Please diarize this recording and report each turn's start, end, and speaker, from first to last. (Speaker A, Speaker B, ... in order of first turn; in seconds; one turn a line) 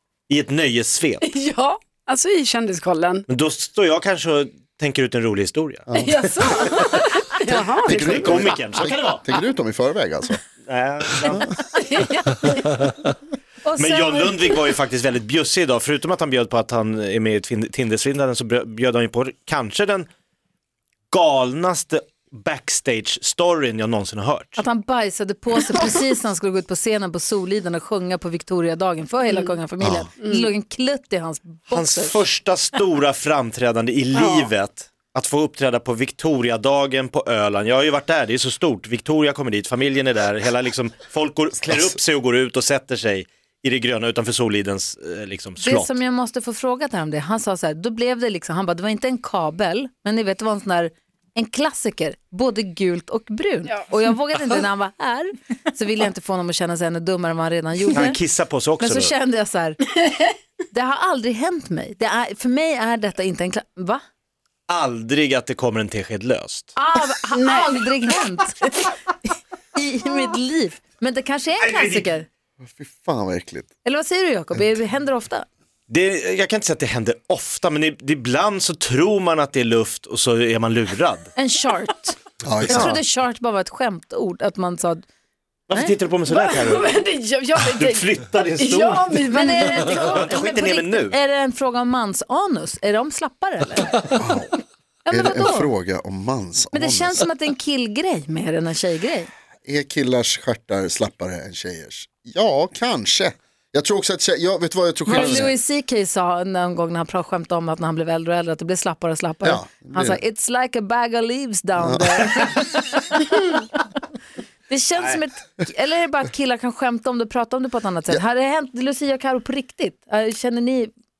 Speaker A: 0.3-1.3
Speaker B: 1.2-3.3
Speaker A: 3.3-5.9
Speaker C: 5.9-6.3
Speaker B: 6.0-8.7
Speaker C: 7.8-10.4
Speaker A: 7.8-9.2
Speaker A: 10.7-11.5
Speaker B: 11.8-12.6
Speaker D: 13.6-14.6
Speaker A: 13.8-20.1
Speaker A: 21.1-24.6
Speaker D: 24.6-32.2
Speaker B: 29.3-29.6
Speaker C: 29.8-30.1
Speaker B: 30.2-30.5
Speaker A: 31.7-46.0
Speaker B: 34.1-34.5
Speaker D: 45.6-58.2
Speaker A: 57.9-59.1
Speaker D: 58.8-59.8
Speaker D: 60.7-64.0
Speaker A: 64.7-66.8
Speaker D: 66.8-68.7
Speaker B: 67.3-67.8
Speaker D: 69.8-72.3
Speaker A: 71.6-72.1
Speaker C: 72.6-73.7
Speaker D: 73.8-75.5
Speaker A: 75.9-81.3
Speaker D: 81.4-82.2
Speaker C: 82.5-83.0
Speaker D: 82.7-85.0
Speaker A: 82.7-83.0
Speaker A: 85.7-86.9
Speaker B: 86.3-88.0
Speaker A: 87.6-91.2
Speaker B: 88.6-90.3
Speaker D: 89.3-94.1
Speaker C: 94.2-94.5
Speaker D: 95.1-95.7
Speaker C: 95.1-97.2
Speaker D: 96.7-99.3
Speaker C: 99.6-105.5
Speaker D: 105.1-113.5
Speaker C: 109.4-110.2
Speaker C: 111.8-112.3
Speaker D: 114.7-120.9
Speaker A: 115.0-115.2